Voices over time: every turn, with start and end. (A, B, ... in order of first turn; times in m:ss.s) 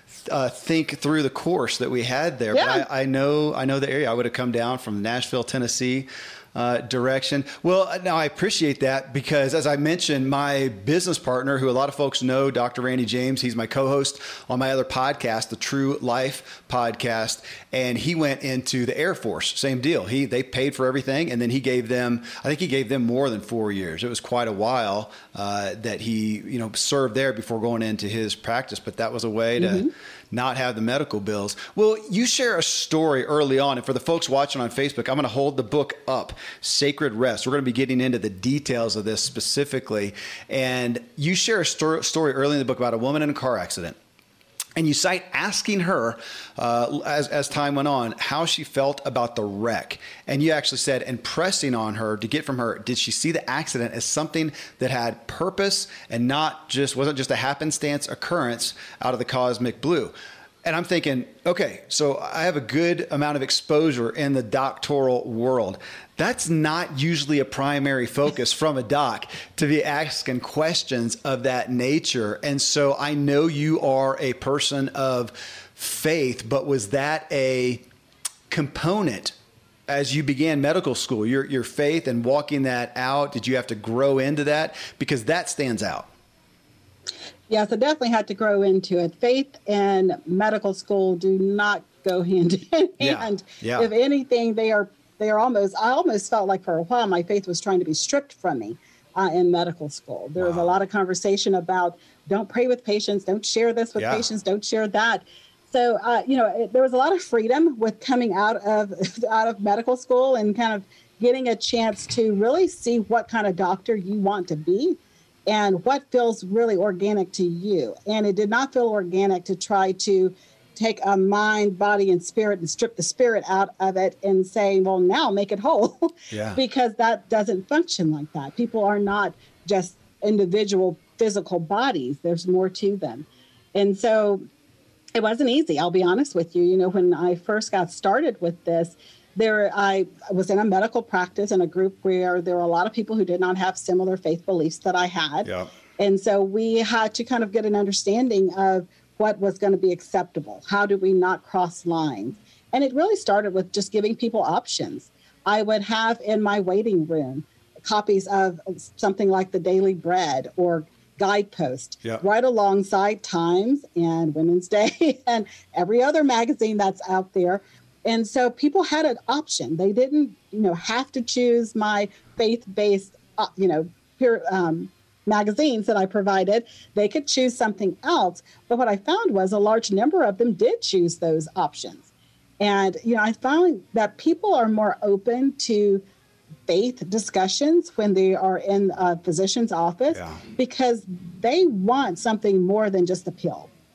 0:00.3-0:44.0 A
0:02.5-0:02.8 B
0:29.6-0:29.9 B
0:44.8-1:00.1 A
1:00.6-1:17.8 A
1:18.5-1:19.4 A
1:19.9-1:26.1 A
1:27.5-2:14.4 B
1:33.0-1:33.9 A
1:40.4-1:40.8 A
1:44.0-1:44.2 A
2:06.3-2:06.6 A
2:15.2-3:02.1 B
2:25.4-2:25.7 A
3:02.6-3:06.0 B
3:06.7-3:13.7 B
3:10.1-3:10.4 A